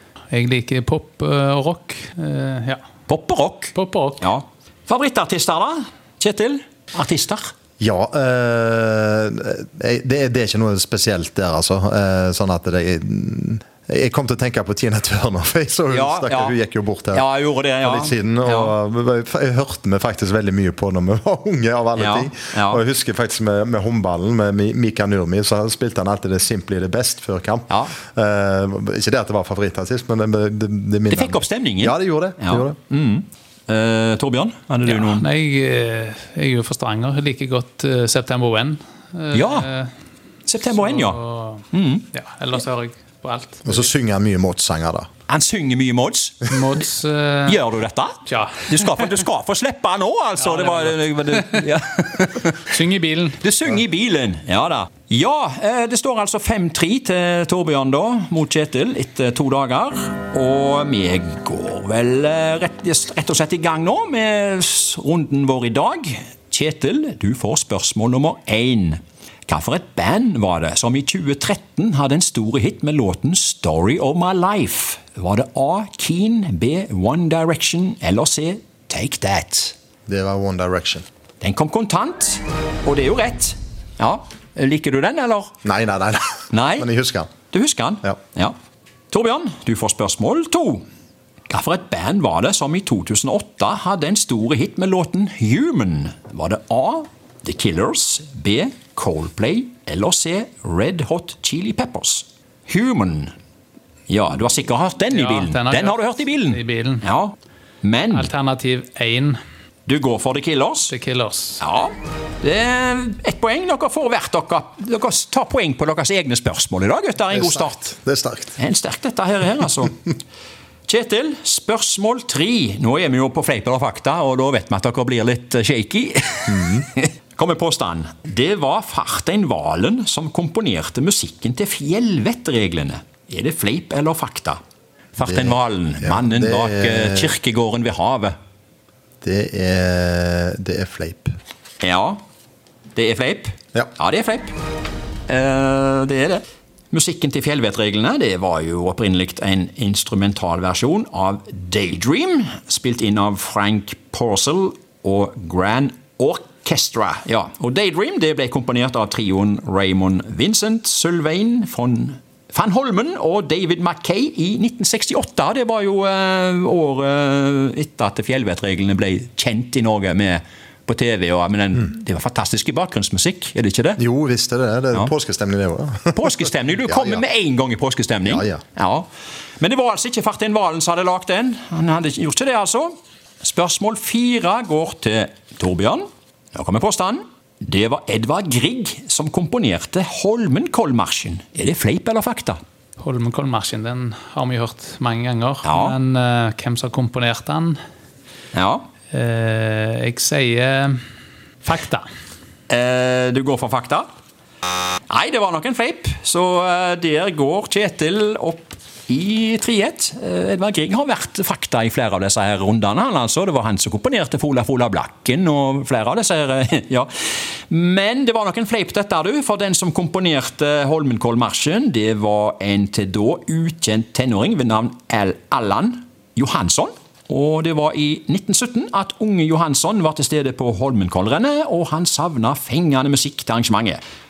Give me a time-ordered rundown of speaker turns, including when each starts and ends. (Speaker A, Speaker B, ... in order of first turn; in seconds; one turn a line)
Speaker A: 0.3-2.8
Speaker B: 3.1-7.5
Speaker A: 3.8-4.2
Speaker C: 7.8-17.2
Speaker B: 15.9-16.6
Speaker B: 17.1-18.8
Speaker C: 17.8-32.8
Speaker B: 22.0-22.8
Speaker B: 31.1-35.2
Speaker A: 34.9-39.9
Speaker B: 39.3-39.7
Speaker B: 40.5-41.2
Speaker A: 40.7-43.8
Speaker B: 41.7-42.1
Speaker C: 43.6-45.1
Speaker B: 45.3-46.5
Speaker A: 46.5-47.6
Speaker B: 47.5-52.7
Speaker A: 48.2-48.9
Speaker A: 50.4-51.6
Speaker A: 52.6-53.4
Speaker B: 53.4-79.7
Speaker C: 80.1-81.0
Speaker B: 81.4-85.5
Speaker C: 85.6-87.3
Speaker B: 86.5-86.9
Speaker B: 87.5-88.5
Speaker B: 89.1-90.8
Speaker B: 91.5-103.3
Speaker B: 104.1-108.3
Speaker A: 105.1-107.1
Speaker A: 108.1-109.4
Speaker B: 109.9-110.9
Speaker A: 110.9-111.6
Speaker B: 111.6-117.9
Speaker C: 117.3-118.6
Speaker B: 118.6-120.0
Speaker B: 120.9-134.6
Speaker C: 126.5-126.8
Speaker B: 135.2-138.3
Speaker C: 135.3-137.3
Speaker C: 139.2-141.3
Speaker B: 141.8-142.2
Speaker B: 143.0-144.5
Speaker B: 145.3-174.0
Speaker C: 174.0-177.2
Speaker B: 176.1-179.1
Speaker C: 178.2-178.6
Speaker B: 179.6-192.6
Speaker A: 193.0-197.8
Speaker B: 195.6-195.9
Speaker B: 198.5-198.8
Speaker A: 199.1-201.0
Speaker A: 201.7-202.1
Speaker B: 202.7-204.1
Speaker B: 205.1-217.1
Speaker B: 217.7-234.0